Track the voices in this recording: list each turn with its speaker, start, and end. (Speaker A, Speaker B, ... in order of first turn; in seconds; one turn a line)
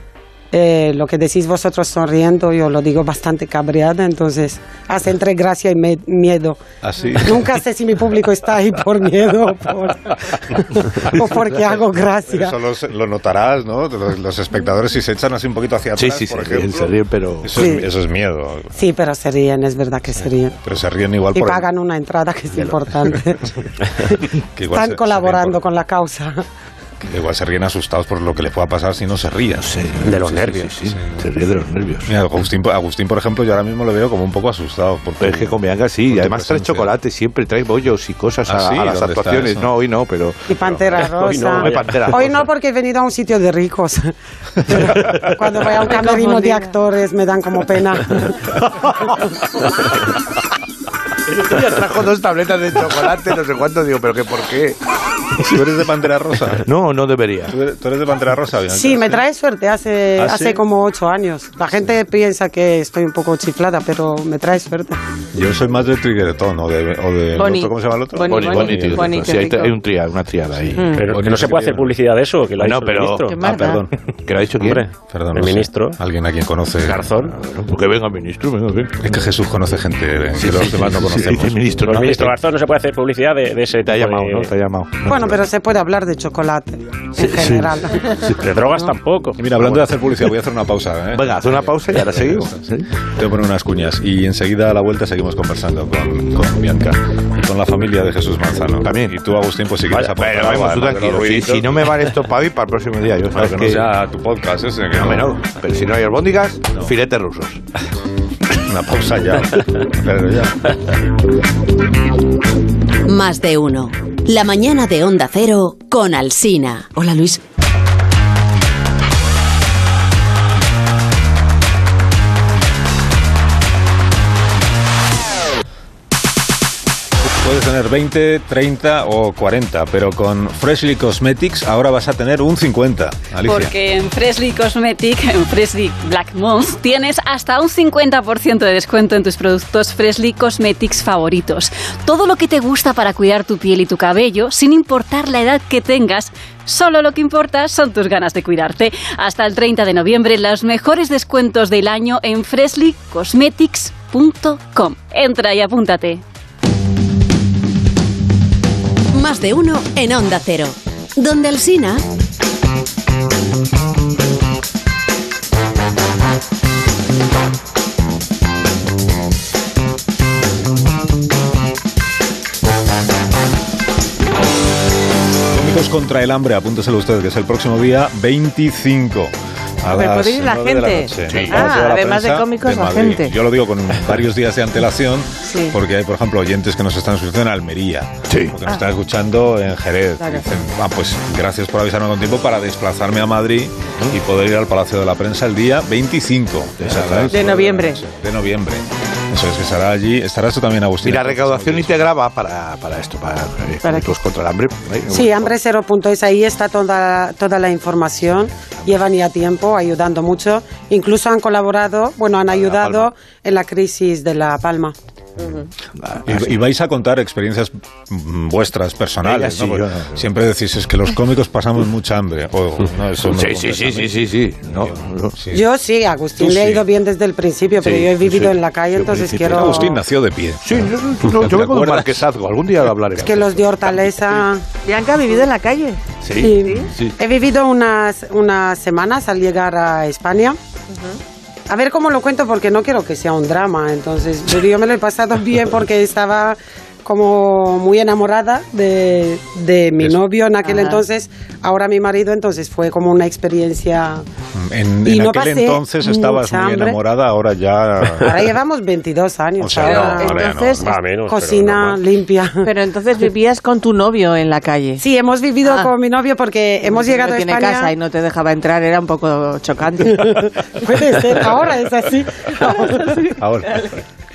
Speaker A: 0.5-6.6
Speaker B: 6.8-7.6
Speaker A: 7.2-12.5
Speaker B: 12.3-18.8
Speaker C: 15.9-17.6
Speaker A: 17.5-17.9
Speaker A: 18.7-20.6
Speaker B: 20.6-21.7
Speaker A: 21.3-26.4
Speaker B: 24.5-25.6
Speaker B: 27.0-30.2
Speaker C: 29.6-32.1
Speaker D: 30.0-30.7
Speaker B: 31.0-31.2
Speaker B: 32.0-36.9
Speaker C: 35.2-40.4
Speaker B: 38.5-39.7
Speaker A: 40.5-44.1
Speaker D: 41.1-42.1
Speaker C: 41.4-42.4
Speaker A: 44.6-48.4
Speaker E: 45.8-46.7
Speaker C: 51.3-54.8
Speaker B: 55.4-56.7
Speaker C: 56.6-57.5
Speaker B: 57.5-59.2
Speaker A: 58.7-65.0
Speaker B: 60.2-60.6
Speaker B: 65.3-69.3
Speaker E: 67.3-69.8
Speaker C: 68.3-71.0
Speaker E: 70.7-71.1
Speaker D: 71.0-73.3
Speaker B: 71.1-71.9
Speaker C: 72.6-73.3
Speaker E: 73.2-73.8
Speaker B: 73.4-73.9
Speaker C: 74.2-74.9
Speaker D: 74.6-76.0
Speaker B: 75.1-77.1
Speaker D: 76.8-77.3
Speaker C: 77.3-79.0
Speaker B: 79.0-81.7
Speaker C: 80.4-82.4
Speaker D: 81.8-84.5
Speaker C: 83.8-85.4
Speaker A: 85.1-88.2
Speaker C: 87.2-88.5
Speaker D: 88.2-89.6
Speaker B: 89.4-101.9
Speaker C: 91.1-92.9
Speaker C: 98.8-99.1
Speaker C: 100.0-103.9
Speaker B: 103.3-105.3
Speaker C: 104.9-107.6
Speaker B: 108.5-110.8
Speaker F: 113.0-117.4
Speaker B: 127.2-133.7
Speaker G: 133.4-156.2
Speaker F: 159.1-162.0
Speaker B: 175.5-202.1
Speaker E: 179.9-183.3
Speaker C: 181.3-181.8
Speaker E: 185.4-185.8
Speaker C: 188.3-188.6
Speaker C: 196.8-197.5
Speaker E: 197.3-198.0
Speaker C: 201.0-205.5
Speaker E: 203.8-204.1
Speaker A: 205.1-214.9
Speaker C: 212.5-213.1
Speaker C: 216.0-216.6
Speaker B: 216.2-225.6
Speaker C: 219.2-220.2
Speaker C: 223.2-225.4
Speaker A: 225.5-229.9
Speaker B: 226.4-226.8
Speaker C: 227.8-229.9
Speaker B: 229.5-232.2
Speaker C: 230.6-234.4
Speaker A: 233.2-234.6
Speaker E: 234.8-236.0
Speaker C: 236.2-237.1
Speaker A: 236.4-240.6
Speaker E: 236.6-236.9
Speaker E: 240.9-241.2
Speaker A: 241.7-254.2
Speaker E: 250.6-251.0
Speaker B: 254.5-258.5
Speaker A: 255.1-257.0
Speaker A: 258.2-260.5
Speaker B: 259.6-260.8
Speaker E: 259.8-260.9
Speaker D: 260.8-262.0
Speaker A: 261.3-262.7
Speaker E: 262.6-265.0
Speaker A: 265.0-267.9
Speaker E: 265.6-265.9
Speaker E: 266.9-270.5
Speaker A: 270.2-273.2
Speaker E: 272.6-273.9
Speaker B: 273.4-273.8